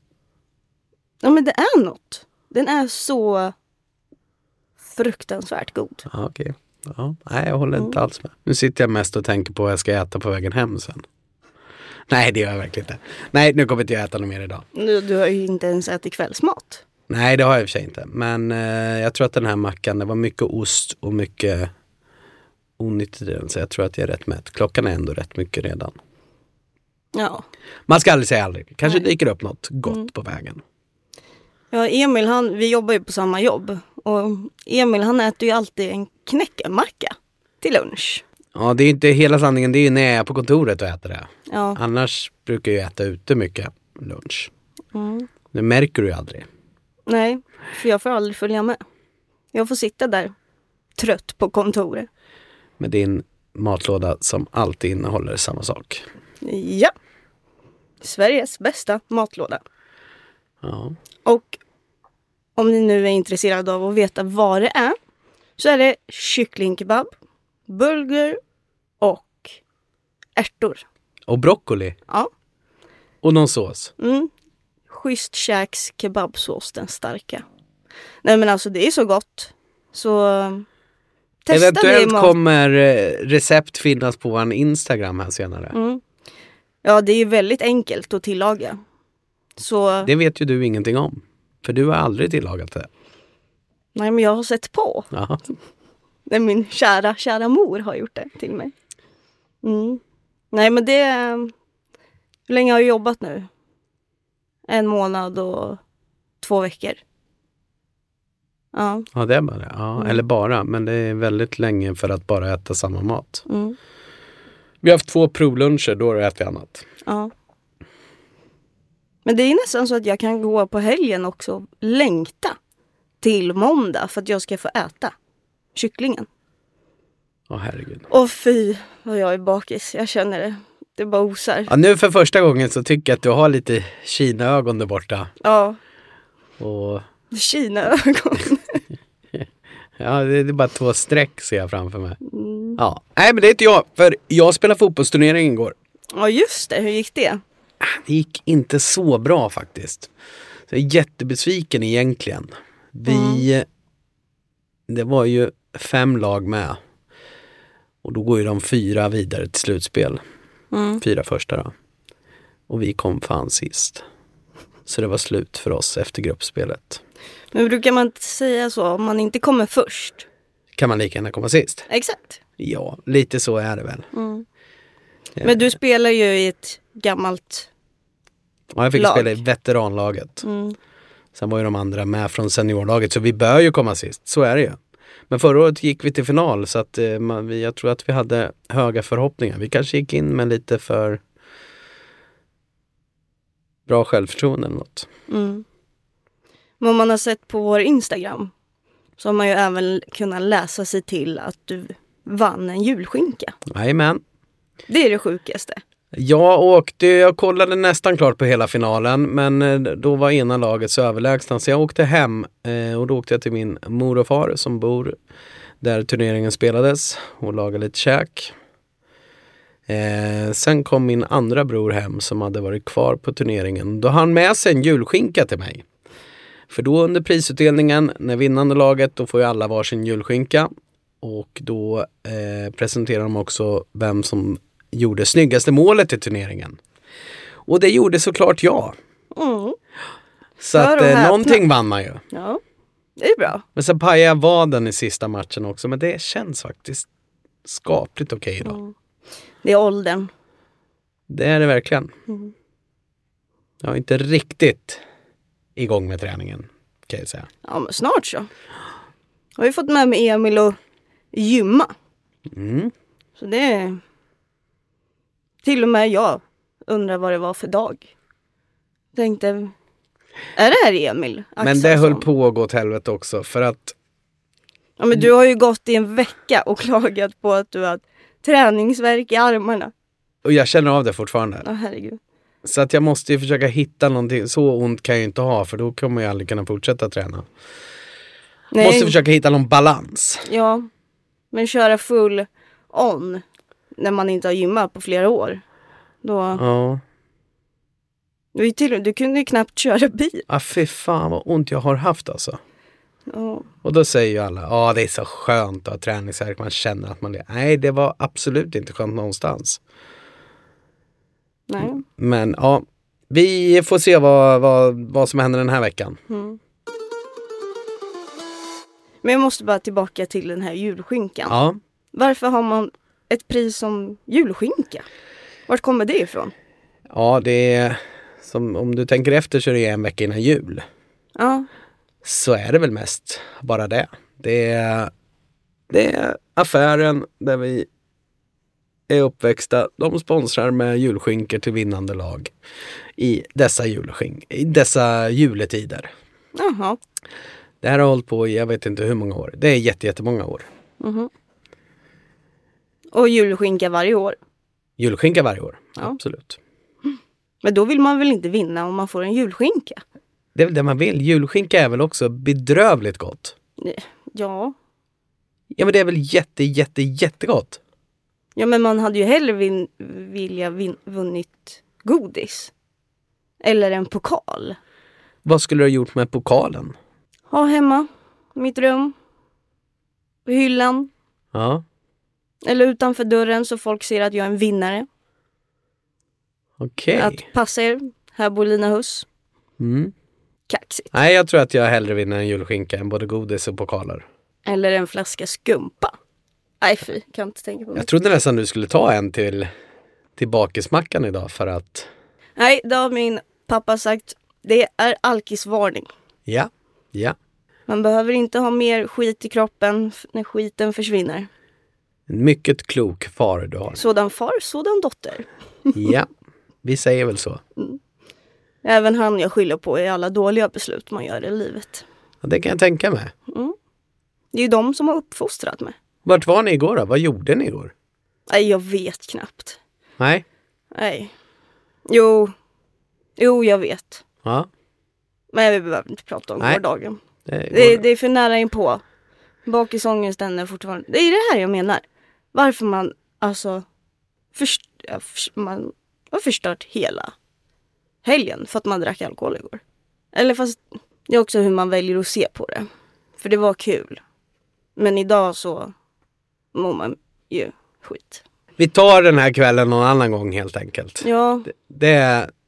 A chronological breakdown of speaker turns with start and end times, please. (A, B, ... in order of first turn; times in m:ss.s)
0:01.2-0:03.6 A
0:04.9-0:06.1 A
0:06.1-0:11.0 B
0:12.1-0:14.6 B
0:14.8-0:16.8 A
0:17.1-0:21.7 B
0:22.8-0:26.0 B
0:27.1-0:27.4 A
0:27.9-0:30.6 B
0:31.7-0:38.2 A
0:38.6-0:44.5 B
0:41.5-0:41.8 A
0:44.9-0:45.3 A
0:45.5-0:46.5 B
0:47.1-0:48.8 A
0:49.5-0:50.3 A
0:51.0-0:52.1 A
0:52.8-0:56.0 B
0:56.4-0:56.9 A
0:58.0-0:59.6 A
1:00.6-1:01.0 B
1:01.2-1:01.6 A
1:02.6-1:05.0 A
1:05.6-1:07.1 A
1:07.7-1:08.4 A
1:09.0-1:09.6 A
1:10.4-1:10.8 A
1:11.3-1:12.0 B
1:13.2-1:13.9 B
1:14.0-1:14.3 A
1:14.9-1:17.4 A
1:18.2-1:20.7 A
1:21.4-1:22.4 A
1:21.5-1:25.8 B
1:25.7-1:26.0 A
1:26.8-1:28.8 A
1:29.6-1:30.1 A
1:30.0-1:32.9 B
1:34.0-1:35.1 A
1:35.1-1:35.4 B
1:36.3-1:38.7 A
1:39.6-1:40.0 A
1:40.5-1:41.5 A
1:42.5-1:43.5 A
1:44.7-1:45.8 A
1:46.4-1:47.0 A
1:48.7-1:49.1 A
1:49.1-1:53.4 B
1:53.5-1:53.8 A
1:54.8-1:56.8 B
1:57.0-1:57.3 A
1:59.2-2:02.6 A
2:03.2-2:05.1 A
2:05.8-2:06.3 A
2:07.5-2:08.1 B
2:08.1-2:11.7 A
2:11.7-2:15.3 B
2:15.4-2:15.8 A
2:16.6-2:17.0 B
2:17.3-2:18.8 A
2:19.3-2:22.2 B
2:22.2-2:22.8 A
2:22.8-2:25.8 B
2:26.1-2:27.4 A
2:27.8-2:30.1 B
2:30.7-2:33.7 B
2:33.1-2:33.5 A
2:34.9-2:36.8 B
2:38.0-2:40.2 B
2:40.7-2:41.0 A
2:41.0-2:41.7 B
2:42.7-2:44.0 B
2:44.9-2:47.0 B
2:47.5-2:50.3 A
2:50.8-2:51.9 B
2:51.9-2:52.4 A
2:52.6-2:54.1 B
2:54.1-2:54.4 A
2:55.4-2:55.7 B
2:55.4-2:57.7 A
2:58.7-3:00.4 B
2:59.0-2:59.4 A
3:00.4-3:00.8 A
3:01.4-3:04.8 B
3:05.3-3:11.2 B
3:13.9-3:15.1 B
3:15.3-3:15.6 A
3:16.8-3:18.5 A
3:19.2-3:23.6 A
3:23.7-3:24.2 B
3:24.9-3:25.8 A
3:26.1-3:35.2 B
3:35.8-3:38.5 B
3:39.9-3:45.8 B
3:46.7-3:50.7 B
3:51.2-3:56.8 B
3:57.7-3:59.0 B
3:59.3-3:59.8 A
4:00.6-4:02.2 B
4:00.7-4:01.6 A
4:02.3-4:02.6 A
4:03.2-4:03.6 A
4:03.8-4:07.1 B
4:07.6-4:08.8 B
4:08.6-4:08.9 A
4:09.6-4:10.3 A
4:11.3-4:12.1 B
4:13.8-4:15.0 B
4:15.8-4:17.5 B
4:17.6-4:18.5 A
4:19.6-4:20.8 A
4:21.3-4:21.9 A
4:22.5-4:22.9 B
4:23.4-4:24.0 A
4:25.6-4:28.1 A
4:29.2-4:29.7 A
4:30.6-4:32.3 A
4:31.6-4:34.0 B
4:35.0-4:39.9 A
4:40.4-4:41.7 B
4:41.6-4:42.2 A
4:42.6-4:47.5 B
4:48.7-4:49.2 A
4:48.8-4:50.5 B
4:50.4-4:50.9 A
4:51.5-4:53.4 A
4:54.0-4:55.6 A
4:56.2-4:56.6 A
4:56.6-4:57.0 B
4:58.5-5:00.5 A
5:00.5-5:02.6 B
5:03.3-5:03.7 A
5:03.8-5:09.8 B
5:11.7-5:12.0 A
5:11.8-5:16.2 B
5:16.3-5:16.6 A
5:19.2-5:21.6 A
5:21.5-5:21.8 B
5:22.1-5:25.0 A
5:25.7-5:26.5 A
5:27.1-5:30.8 B
5:31.4-5:31.7 A
5:32.2-5:35.1 B
5:35.9-5:37.9 B
5:39.1-5:42.5 B
5:43.2-5:46.1 B
5:46.6-5:47.0 A
5:47.8-5:50.7 B
5:51.0-5:51.3 A
5:53.1-5:54.4 A
5:55.0-5:56.6 B
5:57.6-6:00.0 A
6:00.6-6:03.6 B
6:03.8-6:04.8 A
6:05.8-6:07.8 B
6:08.6-6:12.7 A
6:13.6-6:14.8 A
6:15.4-6:17.0 B
6:17.5-6:19.2 A
6:20.5-6:21.1 A
6:21.5-6:21.8 B
6:22.6-6:25.1 A
6:26.8-6:27.4 B
6:27.2-6:29.3 A
6:29.8-6:30.1 B
6:30.7-6:31.1 A
6:31.1-6:34.3 B
6:34.7-6:36.1 A
6:36.8-6:38.1 A
6:38.0-6:39.7 B
6:40.4-6:42.1 B
6:42.6-6:46.1 A
6:46.5-6:47.4 B
6:47.9-6:51.5 A
6:52.3-6:54.0 B
6:54.0-6:55.9 A
6:55.9-6:56.3 B
6:56.8-6:57.6 B
6:58.8-7:02.0 A
7:02.4-7:03.3 B
7:03.5-7:03.8 A
7:04.5-7:06.0 A
7:06.2-7:07.9 B
7:08.5-7:09.8 A
7:10.2-7:10.4 B
7:10.9-7:11.3 A
7:12.1-7:12.5 A
7:13.4-7:14.2 A
7:15.5-7:19.0 A
7:17.5-7:18.0 B
7:19.7-7:23.8 A
7:24.5-7:27.3 A
7:28.2-7:29.8 A
7:30.3-7:32.9 A
7:33.4-7:34.2 A
7:35.0-7:35.9 A
7:36.7-7:38.4 A
7:38.8-7:42.5 B
7:41.2-7:41.7 A